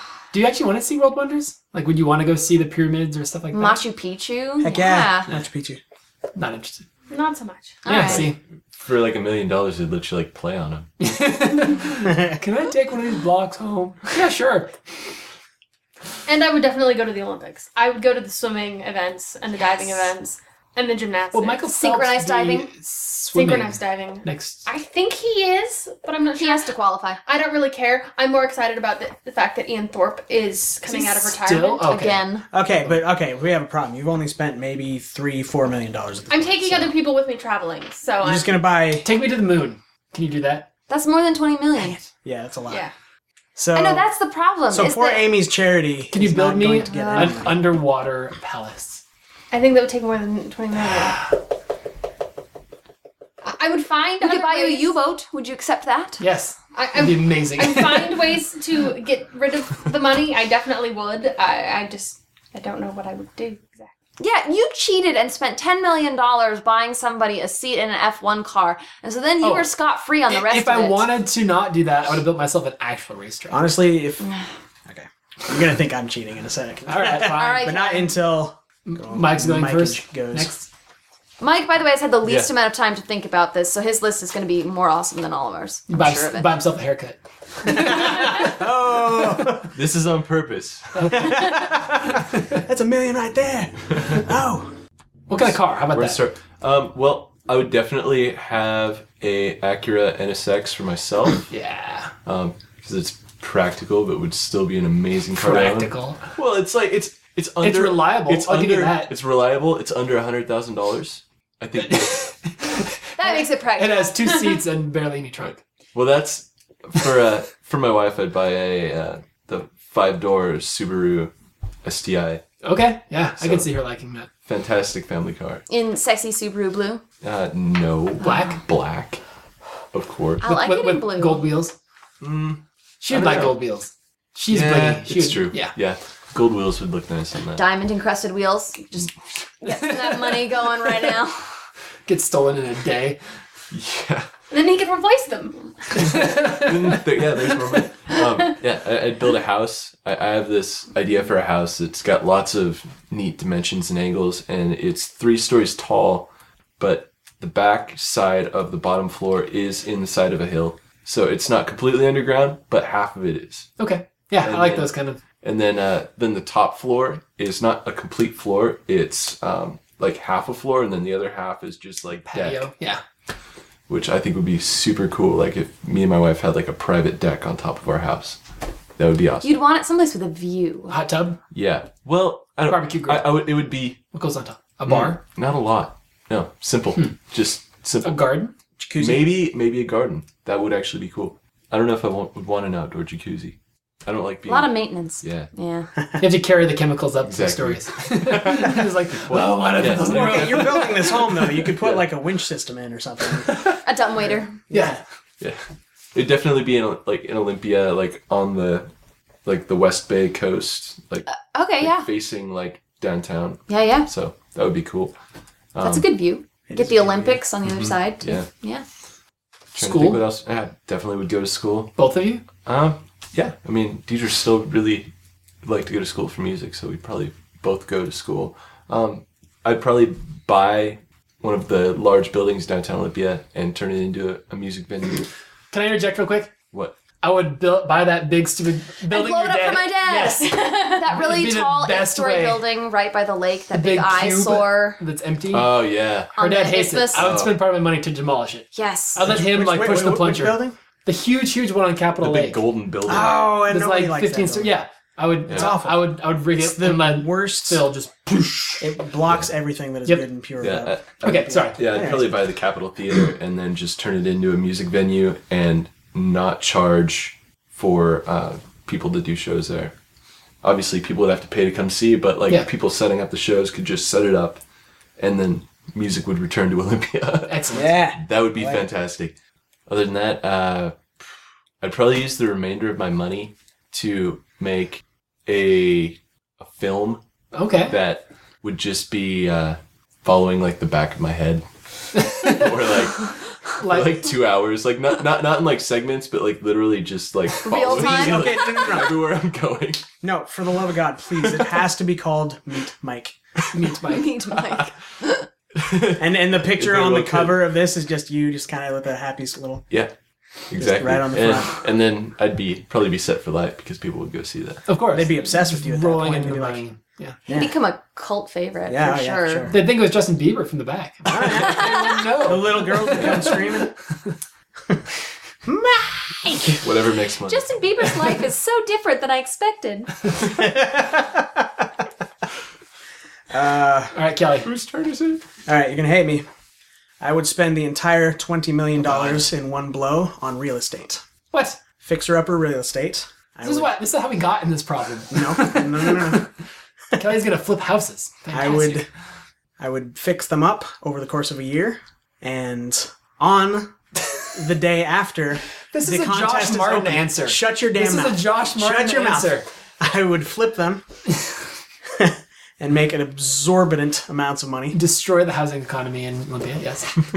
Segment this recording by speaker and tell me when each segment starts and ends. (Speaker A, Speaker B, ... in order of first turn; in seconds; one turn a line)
Speaker A: 0.3-3.8
Speaker B: 3.5-5.3
Speaker C: 4.6-5.8
Speaker A: 6.3-6.9
Speaker D: 7.1-7.8
Speaker B: 7.8-8.3
Speaker A: 7.8-8.4
Speaker E: 7.9-8.3
Speaker E: 8.8-10.9
Speaker A: 11.0-14.7
Speaker D: 16.2-21.7
Speaker A: 21.3-24.7
Speaker B: 21.7-22.7
Speaker D: 23.3-26.7
Speaker B: 26.3-27.2
Speaker D: 27.2-31.9
Speaker A: 30.9-32.2
Speaker B: 31.8-32.4
Speaker C: 32.5-36.9
Speaker D: 36.3-38.5
Speaker C: 38.2-39.1
Speaker A: 39.0-40.7
Speaker B: 40.9-42.0
Speaker C: 42.2-42.8
Speaker C: 43.5-44.1
Speaker B: 43.7-45.3
Speaker C: 44.7-47.6
Speaker A: 46.1-49.0
Speaker B: 46.9-47.5
Speaker D: 49.5-51.3
Speaker D: 53.4-54.9
Speaker B: 54.2-56.2
Speaker A: 56.2-58.3
Speaker D: 56.7-63.9
Speaker B: 64.2-71.1
Speaker A: 69.4-69.7
Speaker A: 70.3-73.7
Speaker C: 73.5-74.2
Speaker B: 74.2-74.5
Speaker C: 74.9-80.5
Speaker A: 76.9-77.7
Speaker B: 77.2-78.1
Speaker A: 78.8-80.7
Speaker B: 81.4-86.5
Speaker E: 82.2-82.5
Speaker A: 85.9-88.5
Speaker C: 87.7-89.7
Speaker E: 89.7-91.2
Speaker A: 91.0-91.4
Speaker C: 91.1-94.7
Speaker A: 95.3-96.2
Speaker E: 95.3-101.5
Speaker A: 101.5-102.1
Speaker E: 102.2-112.3
Speaker A: 105.3-106.2
Speaker A: 107.6-109.1
Speaker A: 111.8-115.6
Speaker B: 113.2-114.1
Speaker E: 115.9-121.3
Speaker E: 121.8-122.4
Speaker A: 122.6-124.3
Speaker E: 123.4-123.7
Speaker E: 124.5-125.6
Speaker B: 125.7-127.0
Speaker E: 127.2-129.2
Speaker A: 128.2-128.6
Speaker E: 129.9-130.5
Speaker B: 130.4-131.4
Speaker A: 130.4-131.7
Speaker E: 132.2-133.6
Speaker A: 133.0-135.7
Speaker E: 134.5-137.6
Speaker B: 137.6-139.1
Speaker B: 139.6-141.5
Speaker A: 139.7-140.3
Speaker A: 142.1-143.2
Speaker E: 143.7-144.3
Speaker D: 144.5-145.7
Speaker A: 145.9-147.0
Speaker E: 146.0-163.7
Speaker A: 163.8-165.2
Speaker E: 164.4-164.9
Speaker E: 165.4-172.7
Speaker A: 172.3-173.0
Speaker E: 173.9-178.4
Speaker E: 179.0-179.6
Speaker B: 179.4-181.0
Speaker A: 180.9-181.4
Speaker E: 181.5-184.0
Speaker A: 182.6-183.4
Speaker A: 184.1-185.2
Speaker E: 184.8-188.3
Speaker A: 188.0-188.5
Speaker C: 188.8-189.3
Speaker E: 189.0-195.5
Speaker B: 194.4-195.9
Speaker A: 196.2-201.5
Speaker E: 197.2-200.8
Speaker C: 199.9-203.7
Speaker A: 203.4-203.8
Speaker B: 203.8-204.6
Speaker C: 204.7-205.0
Speaker A: 204.7-205.0
Speaker E: 206.1-208.9
Speaker E: 209.4-211.3
Speaker B: 211.3-212.1
Speaker E: 211.8-215.1
Speaker B: 213.7-214.1
Speaker E: 215.7-216.1
Speaker B: 215.8-218.8
Speaker C: 216.7-217.4
Speaker E: 217.6-218.5
Speaker E: 219.7-221.9
Speaker A: 219.8-220.2
Speaker A: 221.9-222.4
Speaker E: 222.6-225.1
Speaker E: 225.6-235.3
Speaker A: 235.7-236.5
Speaker A: 237.2-242.7
Speaker B: 239.1-245.0
Speaker A: 243.7-245.8
Speaker E: 245.5-246.3
Speaker B: 246.3-247.4
Speaker A: 246.3-252.6
Speaker E: 247.1-247.6
Speaker B: 248.7-249.3
Speaker C: 249.2-250.8
Speaker E: 252.2-253.5
Speaker C: 253.1-254.7
Speaker A: 253.7-259.0
Speaker E: 255.5-255.7
Speaker C: 255.5-257.8
Speaker C: 258.8-262.4
Speaker E: 260.6-269.9
Speaker A: 261.2-261.8
Speaker E: 270.6-274.6
Speaker E: 275.2-279.3
Speaker A: 277.5-278.0
Speaker C: 277.7-278.8
Speaker E: 279.9-281.2
Speaker E: 281.8-287.2
Speaker A: 287.5-288.0
Speaker E: 287.9-300.0
Speaker A: 292.1-292.7
Speaker A: 293.8-294.3
Speaker B: 297.6-299.0
Speaker C: 297.9-299.2
Speaker C: 300.2-303.4
Speaker E: 301.4-301.6
Speaker A: 303.7-304.3
Speaker B: 304.0-305.5
Speaker E: 305.8-307.6
Speaker C: 306.2-309.8
Speaker E: 310.7-314.9
Speaker C: 310.8-311.7
Speaker A: 314.9-317.4
Speaker C: 315.1-316.8
Speaker C: 317.5-317.7
Speaker B: 317.5-319.7
Speaker C: 318.9-319.8
Speaker A: 319.7-323.9
Speaker C: 321.2-323.9
Speaker B: 321.8-322.1
Speaker C: 325.6-326.8
Speaker E: 326.8-327.7
Speaker B: 327.5-330.3
Speaker C: 330.4-331.9
Speaker C: 333.5-334.1
Speaker A: 334.1-334.7
Speaker E: 334.6-335.4
Speaker C: 335.6-336.4
Speaker C: 337.2-341.2
Speaker A: 339.0-339.4
Speaker A: 341.5-341.8
Speaker C: 342.0-343.9
Speaker A: 343.6-346.5
Speaker C: 345.3-346.4
Speaker A: 347.1-349.0
Speaker C: 348.5-349.1
Speaker C: 349.8-353.9
Speaker C: 354.5-361.0
Speaker A: 355.9-359.6
Speaker C: 362.1-365.0
Speaker A: 364.9-367.2